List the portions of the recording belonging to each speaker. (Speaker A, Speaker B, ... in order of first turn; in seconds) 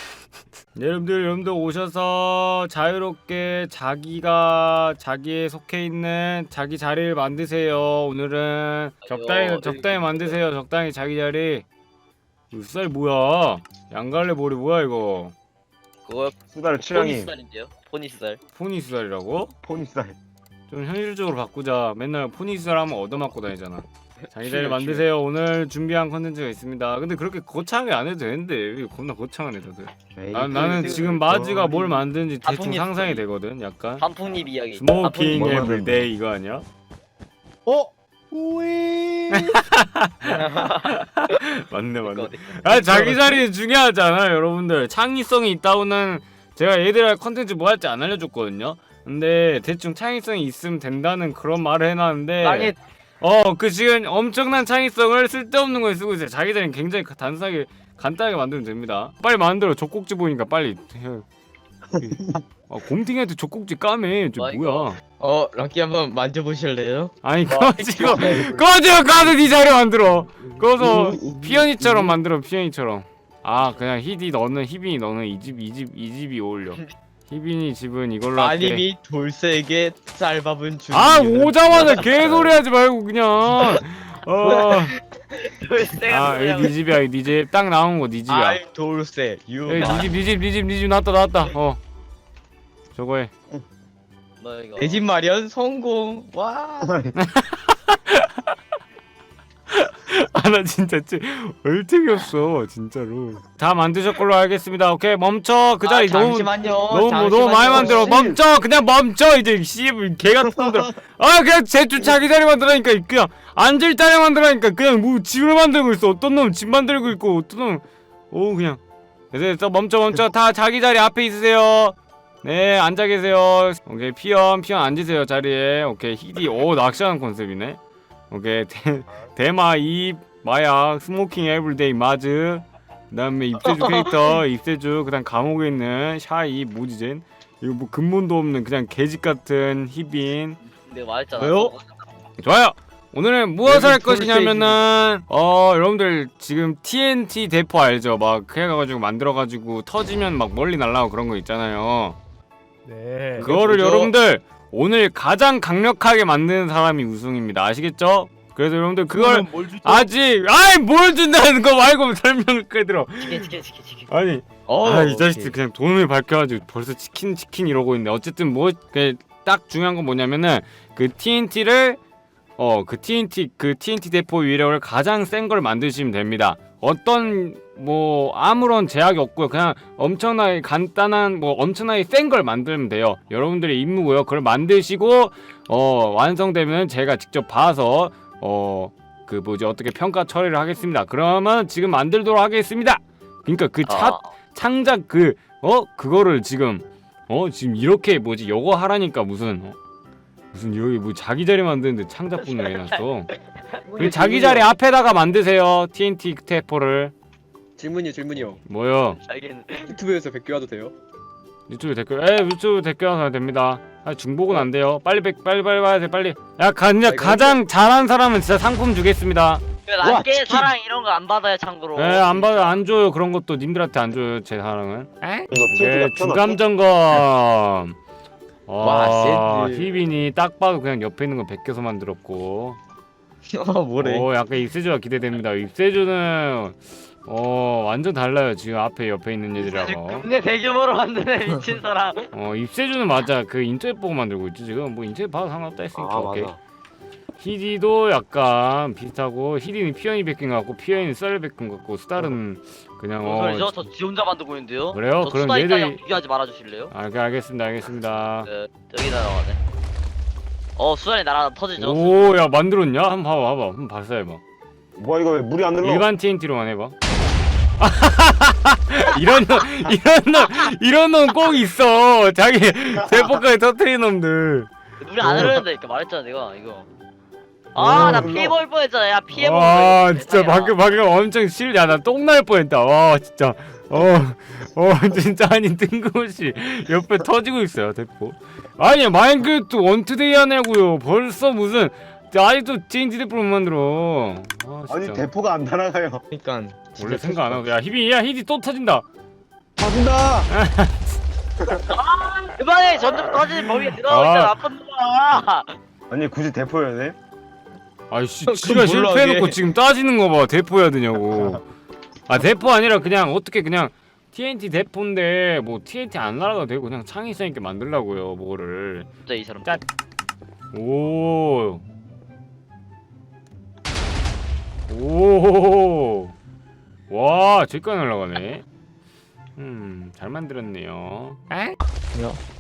Speaker A: 0.8-11.7, 12.5-15.3, 18.6-19.5, 20.7-34.0, 34.7-36.6, 39.3-61.2, 62.0-65.0, 67.2-78.8, 80.9-85.0, 86.0-88.6, 89.7-91.8, 92.9-93.3, 97.2-98.5, 99.7-118.8, 119.3-127.8, 128.3-140.6, 142.4-152.2, 153.4-163.6, 164.1-172.0, 172.6-199.8, 200.5-203.3, 204.0-207.1, 208.6-209.2, 211.7-219.6, 222.0-228.0, 228.7-232.8, 234.0-240.3, 242.3-246.6, 247.4-253.8, 254.9-256.0, 256.9-258.5, 261.8-264.4, 265.8-266.9, 267.8-274.7, 277.8-278.4, 279.3-295.3, 297.0-299.0, 300.5-301.2, 303.3-304.6, 308.1-311.6, 312.3-319.1, 320.7-321.8, 324.9-326.3, 327.1-328.6, 329.6-331.8
Speaker B: 9.1-10.4, 16.1-16.3, 16.9-18.4, 32.4-33.2, 34.0-35.6, 40.2-41.4, 42.0-43.1, 52.4-52.8, 64.4-64.9, 85.4-86.7, 89.7-90.1, 94.4-95.0, 140.8-142.0, 163.2-164.1, 193.9-194.3, 202.4-203.0, 209.2-209.9, 219.9-222.8, 239.6-242.3, 253.2-256.9, 258.4-259.6, 260.8-262.3, 275.0-276.9, 277.7-280.8, 301.9-305.7, 319.2-319.8
Speaker C: 16.5-17.3, 19.6-20.2, 30.1-32.0, 35.3-36.1, 62.0-62.4, 67.5-68.7, 70.8-72.1, 96.8-97.1, 220.1-220.7, 225.5-226.6, 245.9-246.6, 265.0-266.1, 275.3-275.6, 277.8-278.5, 294.9-296.2, 299.8-300.5, 301.6-301.9, 306.1-307.1
Speaker D: 65.2-67.1, 67.7-68.5, 78.3-82.5, 84.4-84.9, 88.3-90.1, 94.8-96.9, 105.8-108.4, 133.7-134.1, 141.4-141.8, 143.7-144.8, 153.4-154.1, 159.2-159.7, 164.7-165.6, 228.8-229.9, 233.5-234.3, 296.3-297.6, 308.4-309.6, 332.1-332.4
Speaker E: 204.0-204.7, 207.8-208.6, 209.8-210.9, 217.1-217.6